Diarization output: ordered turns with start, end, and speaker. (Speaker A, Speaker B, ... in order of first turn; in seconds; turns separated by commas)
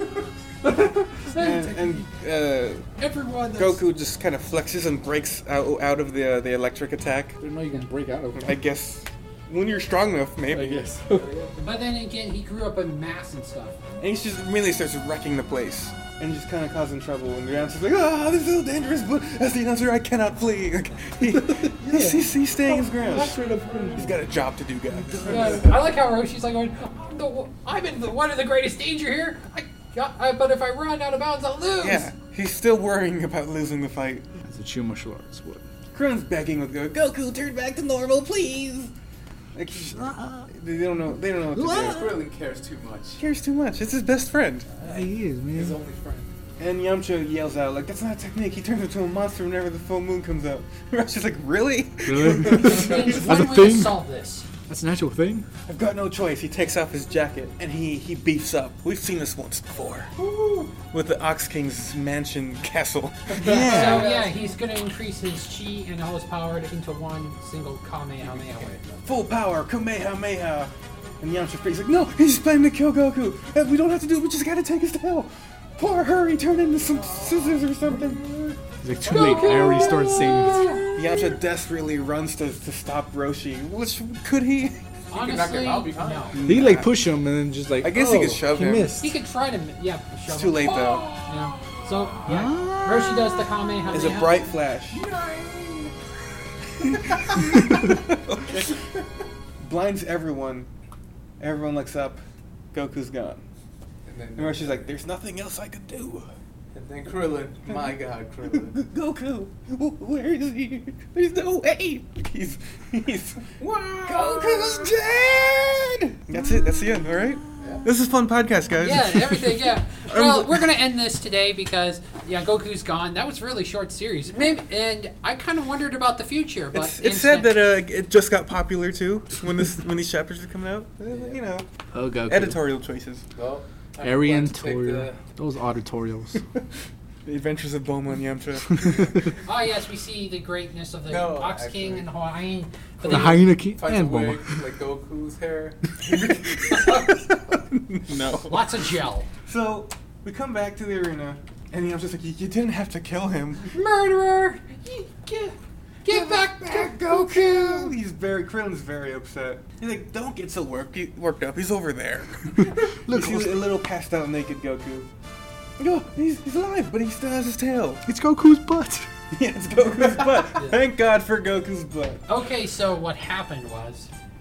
Speaker A: 0.6-2.0, Speaker B: 1.3-2.9, Speaker A: 3.0-3.8, Speaker B: 3.6-7.4, Speaker C: 7.4-8.6, Speaker B: 8.3-10.8, Speaker C: 10.5-11.3, Speaker D: 10.9-11.6, Speaker A: 11.6-13.8, Speaker B: 14.0-23.4, Speaker C: 21.2-24.3, Speaker B: 23.9-25.7, Speaker A: 25.2-32.1, Speaker B: 31.8-34.3, Speaker C: 34.5-35.6, Speaker B: 35.9-38.9, Speaker B: 39.5-42.1, Speaker C: 39.7-40.5, Speaker C: 41.4-42.2, Speaker D: 41.7-43.2, Speaker B: 43.2-44.7, Speaker D: 44.7-46.3, Speaker C: 44.8-45.8, Speaker B: 46.6-53.3, Speaker C: 52.1-54.0, Speaker A: 52.5-54.5, Speaker C: 54.7-55.5, Speaker B: 55.7-60.2, Speaker B: 60.7-64.2, Speaker D: 63.4-64.3, Speaker A: 63.4-68.8, Speaker C: 63.4-64.1, Speaker D: 68.6-69.2, Speaker B: 69.0-78.6, Speaker C: 78.8-81.3, Speaker D: 79.0-80.1, Speaker A: 79.0-80.9, Speaker B: 80.9-84.8, Speaker A: 85.1-86.4, Speaker D: 85.1-86.5, Speaker B: 86.3-87.1, Speaker C: 86.5-89.2, Speaker B: 87.8-89.0, Speaker A: 89.0-94.5, Speaker B: 90.3-91.7, Speaker D: 92.1-92.5, Speaker C: 92.2-93.5, Speaker B: 93.9-95.0, Speaker D: 94.1-94.3, Speaker D: 94.9-96.0, Speaker B: 96.8-98.9, Speaker B: 99.6-100.7, Speaker B: 101.4-103.5, Speaker D: 104.1-104.9, Speaker B: 104.4-106.3, Speaker D: 106.7-108.8, Speaker B: 107.7-120.6, Speaker D: 113.6-114.9, Speaker D: 117.6-117.9, Speaker A: 118.8-127.5, Speaker B: 126.7-131.7, Speaker D: 131.1-131.4, Speaker C: 131.9-132.6, Speaker B: 132.3-133.2, Speaker D: 133.3-135.2, Speaker C: 134.0-136.4, Speaker B: 137.2-139.3, Speaker D: 138.8-139.3, Speaker A: 139.4-143.5, Speaker D: 141.1-142.1, Speaker C: 143.0-144.6, Speaker D: 143.1-145.9, Speaker B: 146.0-148.9, Speaker A: 148.4-149.3, Speaker B: 149.5-153.8, Speaker A: 153.7-157.9, Speaker B: 156.1-165.1, Speaker C: 162.6-163.7, Speaker B: 165.8-168.0, Speaker C: 168.1-169.1, Speaker B: 169.3-172.2, Speaker A: 172.3-174.1